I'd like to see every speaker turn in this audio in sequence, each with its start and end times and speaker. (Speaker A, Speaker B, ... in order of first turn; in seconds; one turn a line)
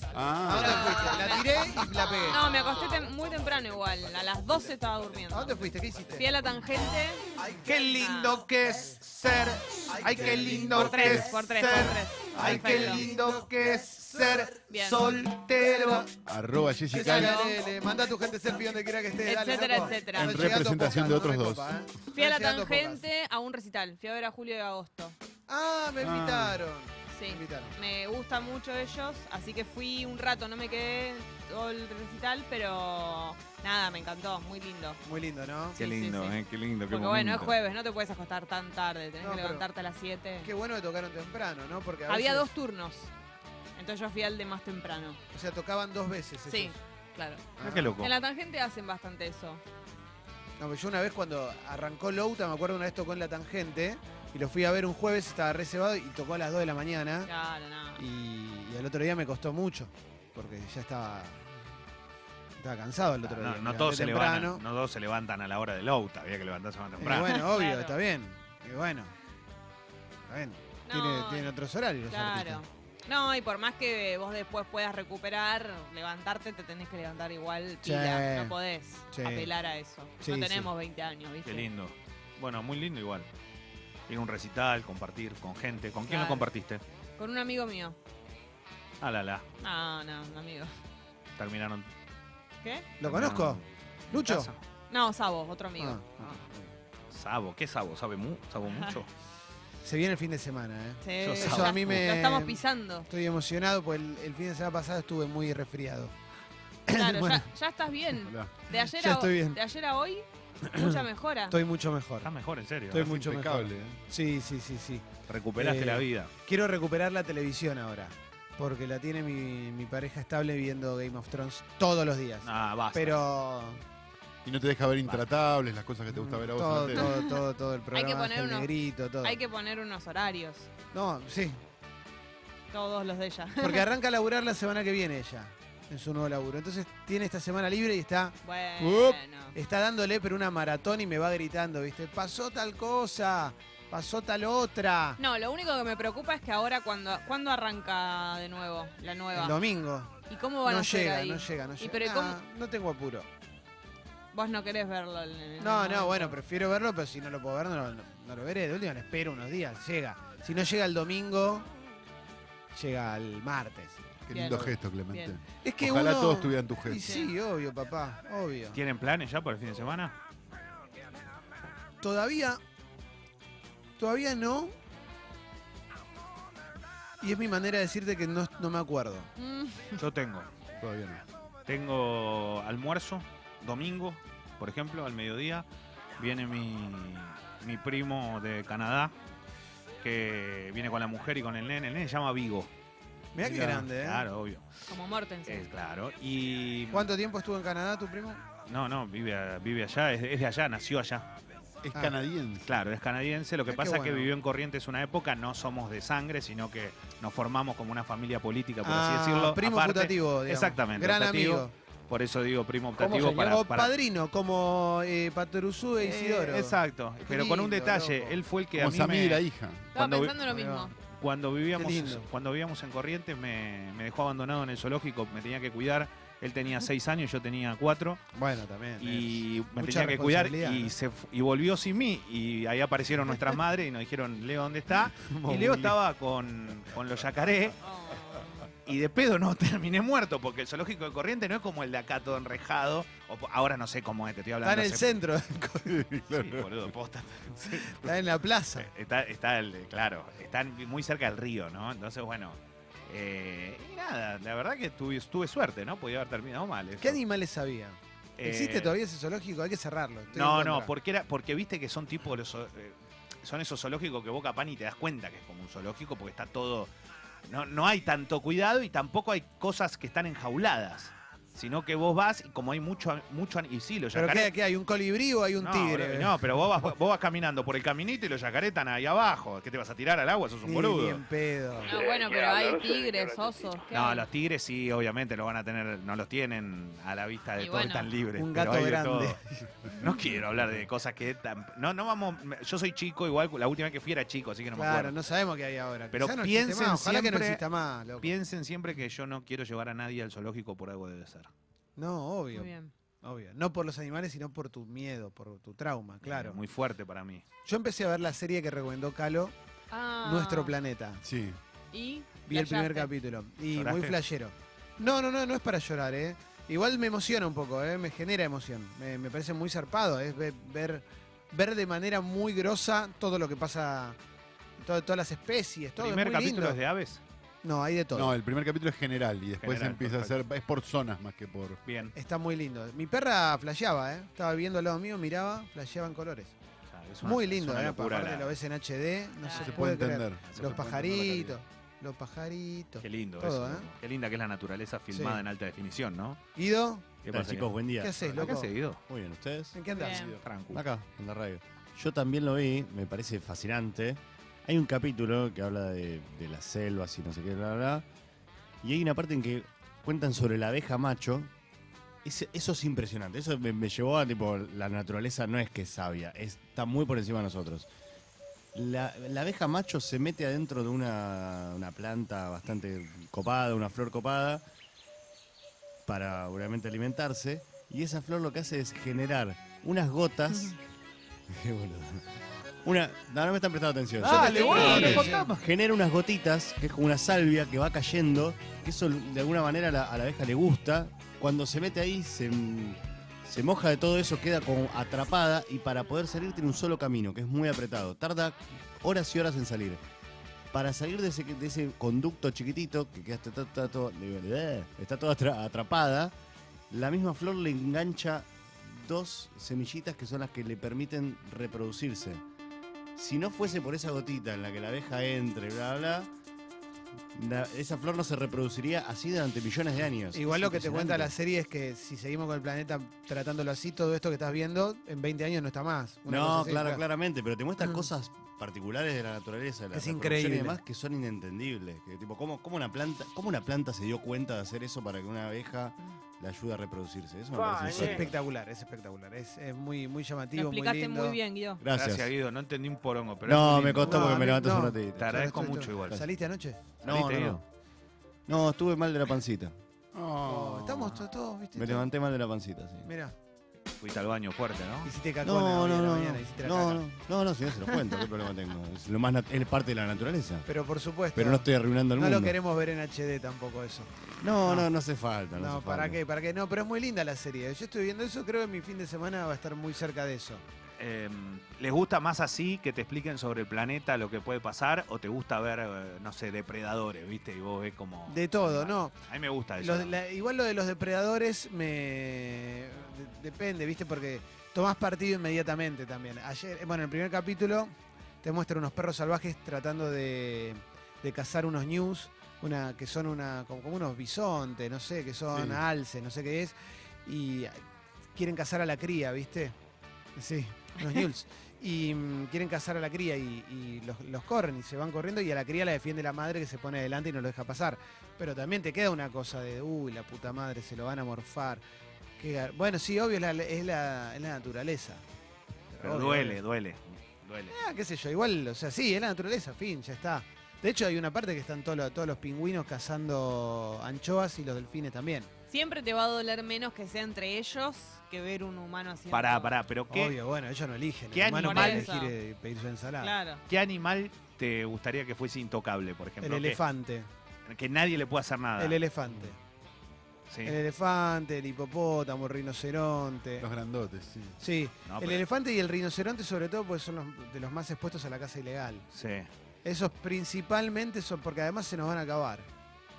Speaker A: 0.1-0.9
Speaker B: 0.5-2.5
Speaker C: 0.5-1.4
Speaker C: 2.2-5.6
Speaker B: 5.3-6.3
Speaker C: 6.1-7.2
Speaker B: 7.4-7.8
Speaker D: 7.6-16.1
Speaker C: 7.9-8.4
Speaker B: 9.9-11.3
Speaker C: 10.7-13.1
Speaker B: 12.3-13.4
Speaker C: 14.7-15.2
Speaker B: 15.7-16.1
Speaker A: 16.2-17.5
Speaker B: 16.9-23.0
Speaker C: 16.9-17.6
Speaker C: 19.2-20.7
Speaker A: 20.1-21.8
Speaker C: 22.1-25.2
Speaker B: 25.5-27.7
Speaker A: 26.0-26.6
Speaker C: 27.1-35.0
Speaker B: 35.0-35.8
Speaker D: 35.8-37.6
Speaker C: 35.8-40.5
Speaker B: 39.2-39.7
Speaker B: 40.4-42.5
Speaker C: 42.1-43.1
Speaker C: 43.8-45.2
Speaker B: 45.3-46.8
Speaker C: 46.5-47.5
Speaker B: 47.6-48.0
Speaker D: 47.6-48.1
Speaker C: 48.0-49.6
Speaker B: 50.6-57.3
Speaker C: 57.3-58.0
Speaker B: 58.0-61.5
Speaker B: 62.6-64.6
Speaker D: 63.2-67.5
Speaker B: 67.0-69.1
Speaker C: 67.2-68.0
Speaker B: 70.3-72.6
Speaker C: 70.9-71.5
Speaker C: 72.1-81.7
Speaker B: 77.8-78.5
Speaker B: 79.1-79.5
Speaker B: 80.2-80.7
Speaker D: 81.5-83.3
Speaker D: 84.1-86.8
Speaker C: 86.1-86.5
Speaker C: 87.2-88.0
Speaker D: 89.0-89.5
Speaker C: 89.6-90.7
Speaker D: 91.4-91.9
Speaker C: 92.6-92.9
Speaker B: 93.0-94.5
Speaker D: 93.0-94.6
Speaker C: 94.9-96.4
Speaker B: 95.8-96.7
Speaker D: 97.1-99.1
Speaker C: 98.7-99.0
Speaker B: 99.8-106.1
Speaker C: 101.0-103.1
Speaker D: 101.2-102.0
Speaker B: 106.9-107.5
Speaker C: 106.9-111.6
Speaker A: 108.2-108.5
Speaker B: 108.7-109.6
Speaker B: 110.7-112.3
Speaker D: 112.2-113.1
Speaker A: 112.9-114.0
Speaker B: 112.9-123.8
Speaker D: 115.3-116.3
Speaker D: 122.4-123.2
Speaker A: 124.5-127.1
Speaker B: 126.1-129.4
Speaker C: 127.0-127.3
Speaker C: 127.9-128.7
Speaker C: 129.2-130.7
Speaker B: 130.9-131.6
Speaker C: 132.7-133.9
Speaker B: 133.6-145.2
Speaker C: 138.4-139.6
Speaker C: 145.2-149.6
Speaker B: 149.3-153.3
Speaker C: 150.3-152.4
Speaker C: 154.3-156.4
Speaker B: 155.6-161.7
Speaker B: 162.7-164.7
Speaker A: 164.3-167.2
Speaker C: 164.3-165.4
Speaker B: 165.6-168.8
Speaker C: 167.0-167.3
Speaker D: 168.7-170.1
Speaker B: 172.0-172.6
Speaker B: 174.0-174.8
Speaker B: 177.2-179.3
Speaker C: 179.4-180.0
Speaker D: 180.0-180.5
Speaker A: 180.8-181.2
Speaker D: 181.7-185.7
Speaker D: 186.2-189.1
Speaker D: 190.0-192.7
Speaker B: 193.3-194.3
Speaker A: 193.4-193.8
Speaker D: 193.5-194.8
Speaker C: 194.9-195.7
Speaker D: 195.5-197.1
Speaker B: 196.9-198.4
Speaker D: 198.7-201.3
Speaker A: 201.8-202.7
Speaker D: 202.7-213.9
Speaker B: 203.7-204.3
Speaker B: 208.8-211.7
Speaker B: 213.0-218.4
Speaker D: 216.0-219.4
Speaker A: 218.8-219.9
Speaker D: 219.9-220.4
Speaker C: 219.9-220.9
Speaker B: 220.5-220.9
Speaker D: 221.0-228.2
Speaker B: 221.8-222.3
Speaker B: 228.3-230.9
Speaker D: 229.0-237.8
Speaker B: 235.3-236.0
Speaker C: 237.8-238.7
Speaker D: 238.8-245.1
Speaker B: 244.6-246.0
Speaker A: 245.9-246.7
Speaker D: 246.3-247.9
Speaker A: 247.6-248.0
Speaker B: 247.7-248.9
Speaker D: 248.8-257.2
Speaker B: 257.0-260.9
Speaker D: 258.4-259.0
Speaker D: 260.3-266.9
Speaker D: 267.4-274.5
Speaker B: 274.1-276.4
Speaker D: 275.6-281.2
Speaker B: 280.6-281.9
Speaker C: 281.9-284.3
Speaker D: 283.9-289.4
Speaker C: 287.6-288.1
Speaker B: 288.4-289.7
Speaker D: 289.9-295.2
Speaker B: 294.7-298.3
Speaker D: 296.1-297.6
Speaker D: 298.2-301.5
Speaker B: 302.0-302.7
Speaker C: 302.5-302.9
Speaker B: 303.2-306.6
Speaker D: 306.2-307.4
Speaker B: 307.6-309.6
Speaker C: 309.9-310.7
Speaker B: 310.2-311.2
Speaker A: 311.2-311.6
Speaker C: 311.9-313.1
Speaker B: 312.5-324.2
Speaker D: 313.7-314.2
Speaker B: 324.8-326.8
Speaker D: 326.0-327.2
Speaker B: 327.6-328.4
Speaker A: 328.1-331.8
Speaker D: 329.6-330.4
Speaker D: 331.9-332.1
Speaker B: 332.1-336.5
Speaker D: 336.9-338.6
Speaker B: 337.2-343.9
Speaker C: 339.4-339.8
Speaker A: 339.6-341.6
Speaker D: 340.5-341.0
Speaker D: 343.0-346.4
Speaker B: 345.1-345.4
Speaker B: 346.6-347.1
Speaker D: 347.2-347.8
Speaker E: 347.3-349.8
Speaker B: 348.0-348.8
Speaker D: 348.3-349.0
Speaker B: 349.7-350.4
Speaker C: 349.9-350.4
Speaker D: 350.4-350.8
Speaker E: 350.7-358.1
Speaker E: 358.8-361.5
Speaker E: 362.2-367.9
Speaker E: 368.7-374.6
Speaker E: 376.1-380.8
Speaker E: 381.5-382.2
Speaker E: 382.8-400.0
Speaker D: 384.2-385.6
Speaker B: 384.2-385.5
Speaker C: 384.3-385.3
Speaker E: 400.7-406.3
Speaker E: 406.9-412.4
Speaker E: 413.1-416.3
Speaker E: 417.4-421.3
Speaker B: 420.3-427.0
Speaker E: 426.3-438.3
Speaker B: 427.8-428.1
Speaker B: 429.9-430.8
Speaker B: 437.9-441.4
Speaker C: 440.6-441.8
Speaker E: 441.8-442.3
Speaker D: 441.9-444.5
Speaker E: 443.4-445.4
Speaker B: 444.0-446.9
Speaker D: 445.2-446.3
Speaker E: 447.0-447.6
Speaker D: 447.0-447.6
Speaker E: 448.5-449.8
Speaker A: 450.1-451.2
Speaker B: 450.4-452.1
Speaker E: 451.8-453.1
Speaker B: 453.1-453.3
Speaker D: 454.0-455.1
Speaker B: 455.1-457.0
Speaker E: 455.4-460.7
Speaker B: 460.7-464.1
Speaker E: 461.4-462.6
Speaker E: 464.4-466.2
Speaker B: 465.5-470.6
Speaker D: 471.0-480.1
Speaker B: 478.3-479.1
Speaker B: 479.8-497.8
Speaker A: 495.5-495.8
Speaker B: 498.4-499.8
Speaker B: 500.4-511.8
Speaker B: 512.4-515.2
Speaker B: 515.9-516.6
Speaker D: 516.0-517.8
Speaker B: 517.7-525.5
Speaker C: 525.7-529.8
Speaker D: 529.3-530.4
Speaker B: 530.1-533.3
Speaker D: 531.3-532.1
Speaker C: 531.6-532.3
Speaker C: 533.2-533.6
Speaker D: 533.7-536.8
Speaker B: 536.4-537.3
Speaker D: 537.7-539.0
Speaker B: 538.8-539.6
Speaker D: 540.5-540.8
Speaker B: 540.6-543.7
Speaker A: 543.6-544.6
Speaker B: 544.6-549.0
Speaker D: 545.1-545.4
Speaker D: 549.1-549.5
Speaker B: 549.9-552.7